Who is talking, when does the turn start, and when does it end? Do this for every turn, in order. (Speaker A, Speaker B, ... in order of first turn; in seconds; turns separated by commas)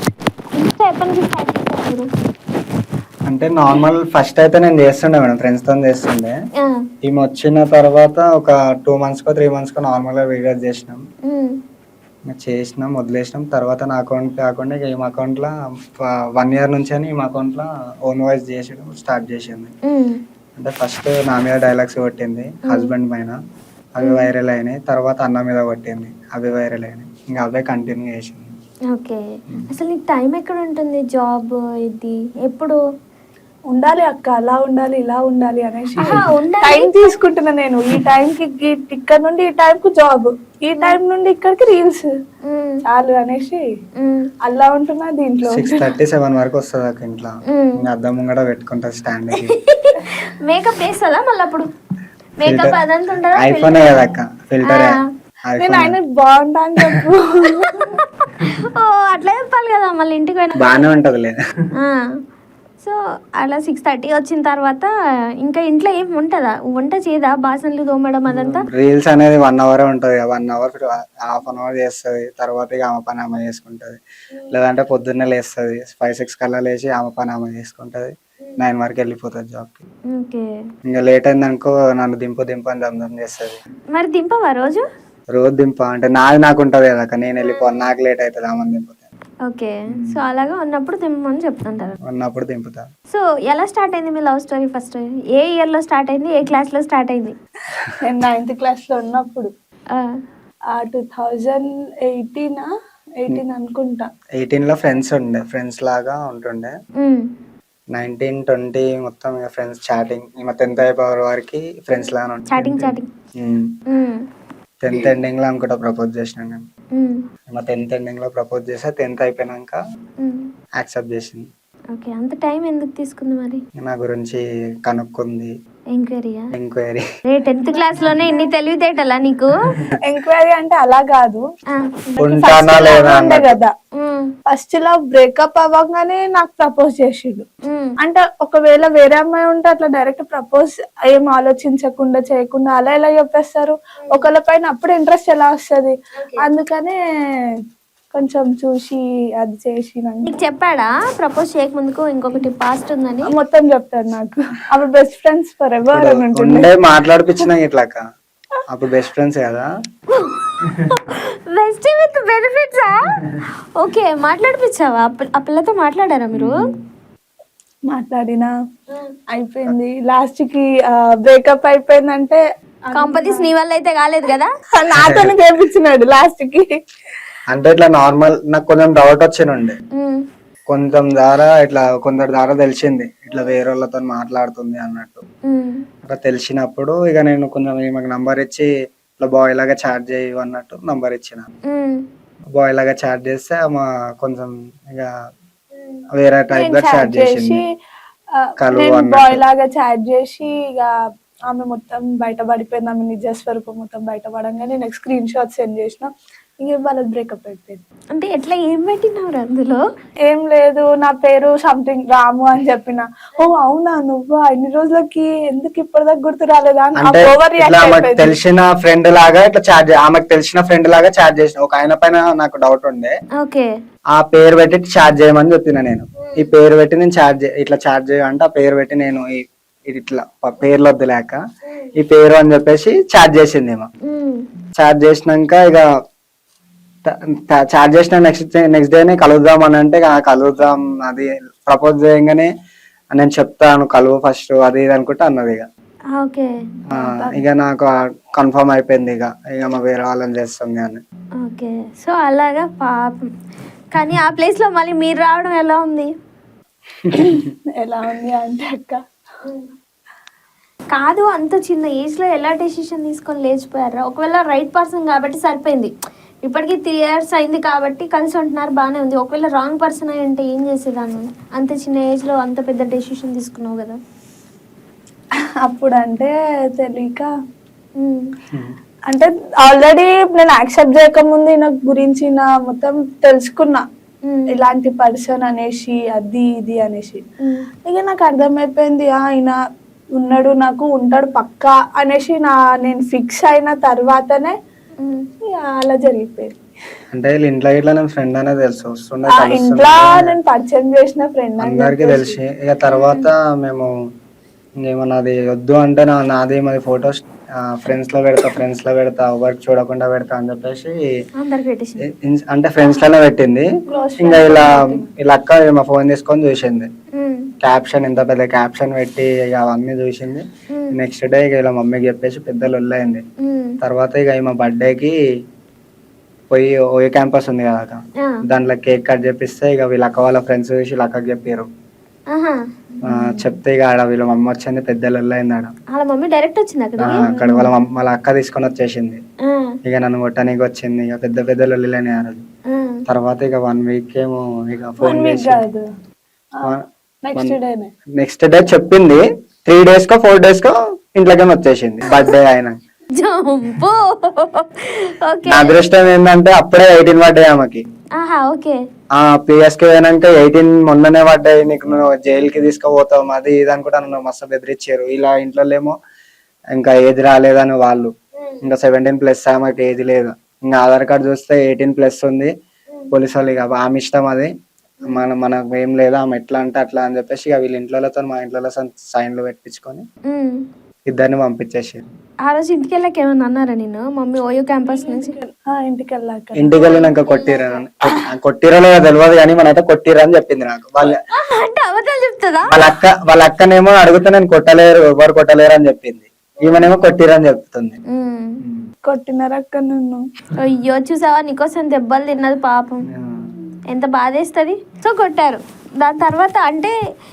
Speaker A: 0.6-2.1, Speaker B: 3.3-6.3, Speaker B: 7.0-11.0, Speaker A: 11.3-11.6, Speaker B: 12.3-19.7, Speaker A: 19.9-20.2, Speaker B: 20.6-23.4, Speaker B: 24.0-28.5, Speaker A: 24.0-24.3, Speaker A: 28.9-29.2, Speaker A: 29.7-32.8, Speaker C: 33.7-42.1, Speaker A: 36.0-37.1, Speaker A: 42.5-42.8, Speaker C: 42.9-43.6, Speaker A: 44.0-44.2, Speaker C: 44.5-45.9, Speaker B: 45.5-49.5, Speaker A: 47.5-47.8, Speaker A: 49.6-51.7, Speaker A: 52.4-53.9, Speaker B: 52.4-52.8, Speaker B: 53.3-56.0, Speaker A: 54.7-55.0, Speaker C: 55.6-57.9, Speaker A: 57.5-60.8, Speaker B: 60.6-61.4, Speaker A: 62.8-64.9, Speaker A: 65.4-68.7, Speaker B: 68.3-74.0, Speaker B: 74.5-79.9, Speaker A: 80.1-80.5, Speaker B: 80.9-83.6, Speaker A: 83.9-84.8, Speaker B: 85.3-89.1, Speaker A: 89.5-92.0, Speaker B: 89.9-90.2, Speaker B: 92.1-92.8, Speaker A: 93.1-97.3, Speaker C: 98.0-99.5, Speaker C: 100.7-102.7, Speaker C: 103.2-104.1, Speaker B: 104.4-106.7, Speaker A: 107.0-107.2, Speaker B: 107.9-113.6, Speaker A: 112.5-113.1, Speaker A: 113.9-114.2, Speaker B: 114.8-116.6, Speaker B: 117.5-119.8, Speaker B: 120.8-121.4, Speaker A: 121.9-123.6, Speaker B: 123.8-125.5, Speaker A: 125.9-126.4, Speaker B: 126.5-127.0, Speaker A: 127.3-129.5, Speaker C: 127.9-128.5, Speaker C: 130.0-131.4, Speaker A: 131.7-132.1, Speaker B: 132.2-133.6, Speaker C: 132.2-133.7, Speaker A: 133.9-134.3, Speaker C: 134.5-137.4, Speaker A: 137.7-138.0, Speaker C: 138.0-147.0, Speaker C: 148.1-150.3, Speaker A: 150.2-153.3, Speaker C: 153.2-156.7, Speaker B: 155.9-158.0, Speaker B: 158.7-159.7, Speaker A: 160.1-163.2, Speaker B: 160.6-160.9, Speaker A: 163.8-166.5, Speaker B: 166.3-166.8, Speaker C: 167.9-168.5, Speaker C: 169.3-170.7, Speaker C: 171.2-173.5, Speaker A: 172.9-174.5, Speaker C: 174.8-176.7, Speaker B: 174.9-175.3, Speaker B: 177.5-179.8, Speaker A: 179.9-180.2, Speaker B: 180.7-185.2, Speaker A: 185.5-185.8, Speaker B: 186.1-188.7, Speaker B: 189.2-191.4, Speaker A: 191.7-192.0, Speaker B: 192.6-195.1, Speaker B: 196.1-197.6, Speaker C: 196.6-197.7, Speaker B: 198.6-199.4, Speaker C: 198.7-200.9, Speaker C: 201.5-206.1, Speaker C: 206.6-207.8, Speaker A: 208.2-209.8, Speaker C: 210.3-218.3, Speaker B: 217.0-223.1, Speaker A: 223.4-223.7, Speaker B: 224.2-231.4, Speaker B: 232.0-233.9, Speaker A: 234.1-234.4, Speaker B: 234.8-235.8, Speaker B: 237.0-242.5, Speaker B: 243.1-245.7, Speaker A: 246.2-246.5, Speaker B: 246.9-251.0, Speaker C: 246.9-247.4, Speaker A: 251.4-253.2, Speaker A: 253.9-256.1, Speaker B: 257.1-257.4, Speaker C: 257.1-259.0, Speaker A: 260.9-265.9, Speaker A: 266.4-274.0, Speaker C: 275.7-277.3, Speaker A: 278.0-278.2, Speaker C: 279.1-283.8, Speaker A: 284.3-284.6, Speaker C: 284.5-287.2, Speaker C: 287.9-289.6, Speaker C: 290.2-294.5, Speaker C: 295.6-296.6, Speaker B: 297.1-300.3, Speaker C: 299.4-302.4, Speaker B: 301.6-303.9, Speaker A: 302.9-303.3, Speaker B: 304.8-310.9, Speaker A: 311.4-312.0, Speaker B: 312.1-316.9, Speaker C: 313.9-315.1, Speaker A: 317.1-317.5, Speaker B: 317.6-323.2, Speaker A: 323.4-323.8, Speaker B: 323.8-325.1, Speaker B: 326.5-331.7, Speaker B: 333.1-335.7, Speaker A: 333.1-333.4, Speaker A: 335.9-337.2, Speaker B: 337.0-339.2, Speaker C: 337.3-337.7, Speaker B: 339.8-342.4, Speaker A: 342.7-343.0, Speaker B: 343.1-345.6, Speaker C: 345.0-345.8, Speaker C: 347.2-347.9, Speaker B: 348.2-352.8, Speaker A: 353.1-355.8, Speaker B: 355.4-357.8, Speaker A: 358.2-358.8, Speaker B: 359.2-365.9, Speaker B: 366.7-368.1, Speaker B: 368.6-372.5, Speaker B: 373.1-374.5, Speaker B: 375.1-380.0, Speaker A: 380.3-380.6, Speaker B: 381.1-382.1, Speaker A: 382.5-385.4, Speaker C: 384.8-386.9, Speaker B: 386.6-391.2, Speaker A: 386.8-387.6, Speaker A: 391.3-392.7, Speaker B: 392.7-398.0, Speaker A: 396.6-396.9, Speaker A: 398.1-398.6, Speaker B: 398.6-398.9, Speaker C: 399.1-400.2, Speaker A: 400.6-403.1, Speaker B: 403.1-403.5, Speaker A: 403.9-406.9